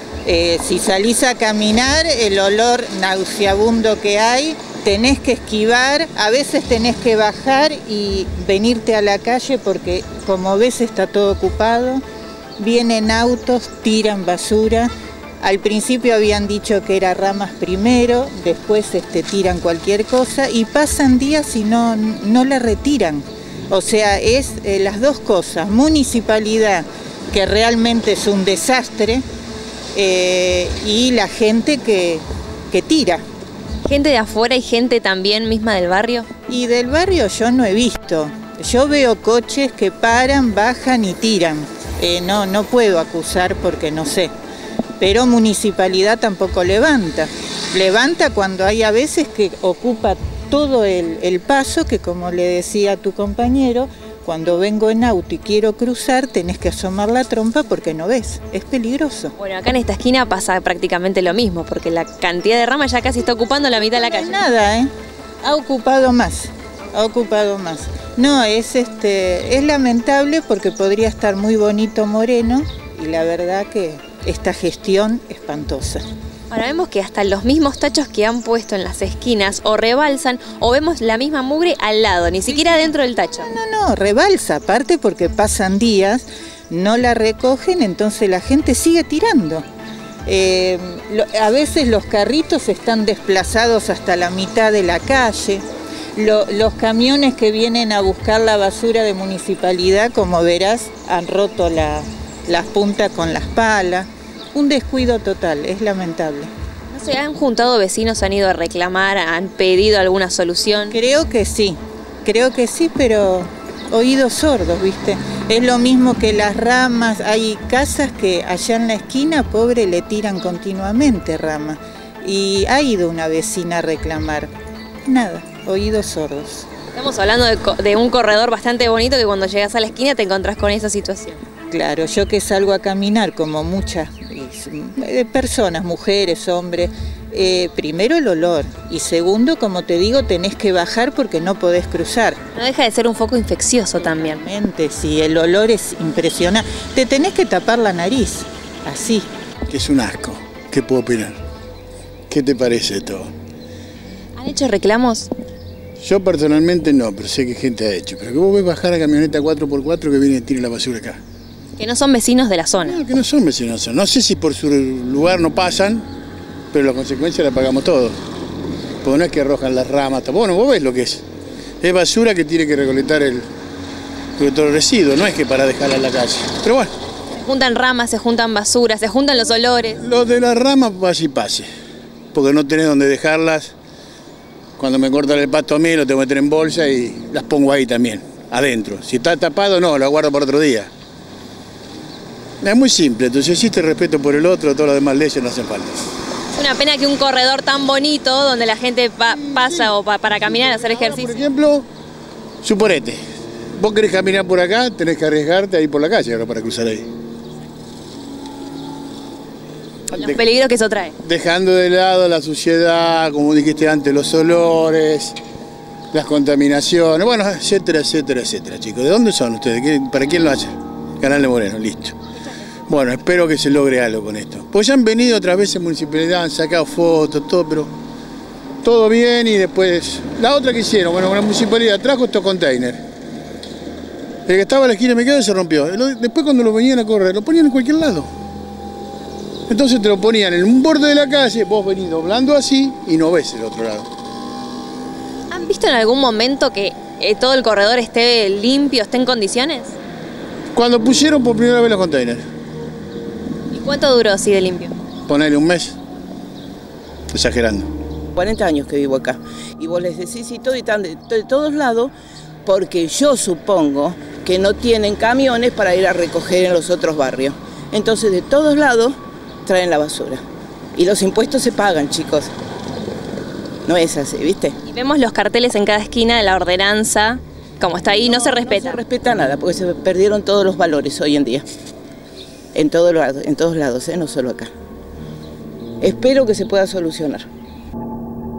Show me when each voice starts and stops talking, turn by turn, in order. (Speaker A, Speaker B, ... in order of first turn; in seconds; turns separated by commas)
Speaker A: 0.2-12.0, Speaker A: 12.6-29.2, Speaker A: 29.9-33.2, Speaker B: 33.9-36.3, Speaker A: 36.5-44.3, Speaker A: 45.0-59.3, Speaker B: 59.4-64.5, Speaker A: 64.0-64.9, Speaker A: 65.4-76.0, Speaker B: 76.5-83.5, Speaker A: 82.5-89.7, Speaker A: 90.2-95.6, Speaker A: 96.2-106.5, Speaker B: 106.9-111.0, Speaker A: 110.9-124.5, Speaker A: 125.1-126.7, Speaker B: 127.0-131.4, Speaker A: 131.7-142.4, Speaker B: 142.6-144.4, Speaker A: 144.0-149.3, Speaker C: 149.7-151.4, Speaker C: 152.3-153.3, Speaker B: 154.4-155.3, Speaker C: 156.0-161.2, Speaker B: 161.8-163.0, Speaker C: 162.8-166.1, Speaker C: 166.7-168.2, Speaker C: 169.0-171.2, Speaker C: 171.8-173.5, Speaker C: 174.4-176.9, Speaker B: 177.4-180.0, Speaker C: 180.0-181.7, Speaker C: 182.3-183.7, Speaker C: 184.8-190.9, Speaker C: 192.6-196.1, Speaker B: 196.5-201.5, Speaker C: 199.3-201.9, Speaker C: 202.6-203.2, Speaker C: 203.8-207.1, Speaker B: 210.1-211.2, Speaker C: 211.2-215.4, Speaker C: 216.1-222.2, Speaker C: 222.9-227.9, Speaker C: 228.8-233.0, Speaker C: 234.5-238.3, Speaker C: 239.7-244.1, Speaker B: 245.5-250.0, Speaker C: 250.7-252.4, Speaker B: 253.7-255.0, Speaker C: 255.3-256.0, Speaker C: 257.3-257.9, Speaker D: 258.4-262.1, Speaker D: 262.7-270.4, Speaker D: 271.0-272.5, Speaker D: 273.9-274.8, Speaker B: 274.8-279.0, Speaker D: 278.2-281.6, Speaker D: 282.7-284.7, Speaker D: 286.0-287.5